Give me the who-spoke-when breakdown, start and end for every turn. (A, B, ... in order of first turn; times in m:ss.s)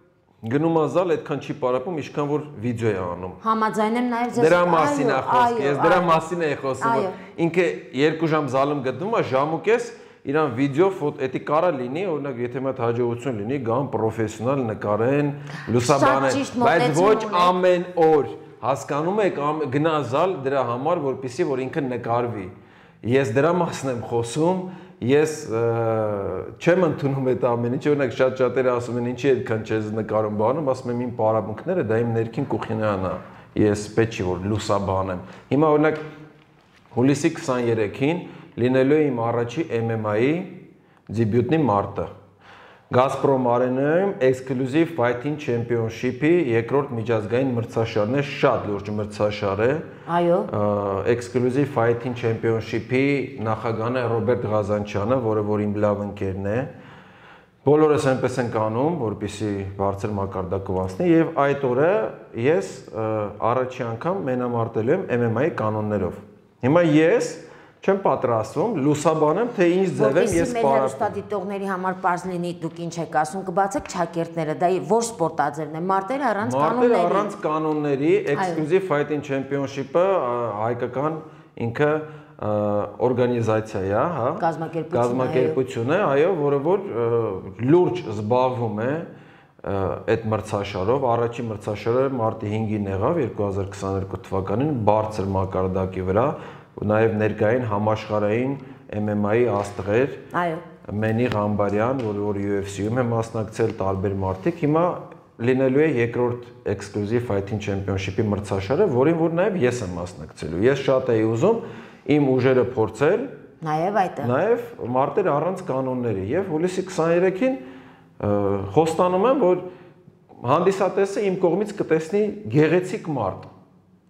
0:00.4-0:03.4 A
0:03.4-0:06.2 B
0:04.3-0:36.0 A
0:06.8-0:07.2 B
0:15.8-0:17.5 B
0:36.9-0:42.1 A
0:42.9-0:49.9 A
0:50.1-0:50.5 B
0:50.5-0:56.7 A
0:57.6-1:11.1 A
1:10.0-1:17.3 B
1:16.4-1:29.1 A
1:18.3-1:18.6 B
1:24.4-1:25.6 B
1:29.6-1:40.2 A
1:40.3-1:40.6 B
1:40.8-1:53.3 A
1:53.6-1:54.3 B
1:54.2-1:57.6 A
1:58.2-1:59.7 A
2:00.4-2:03.5 A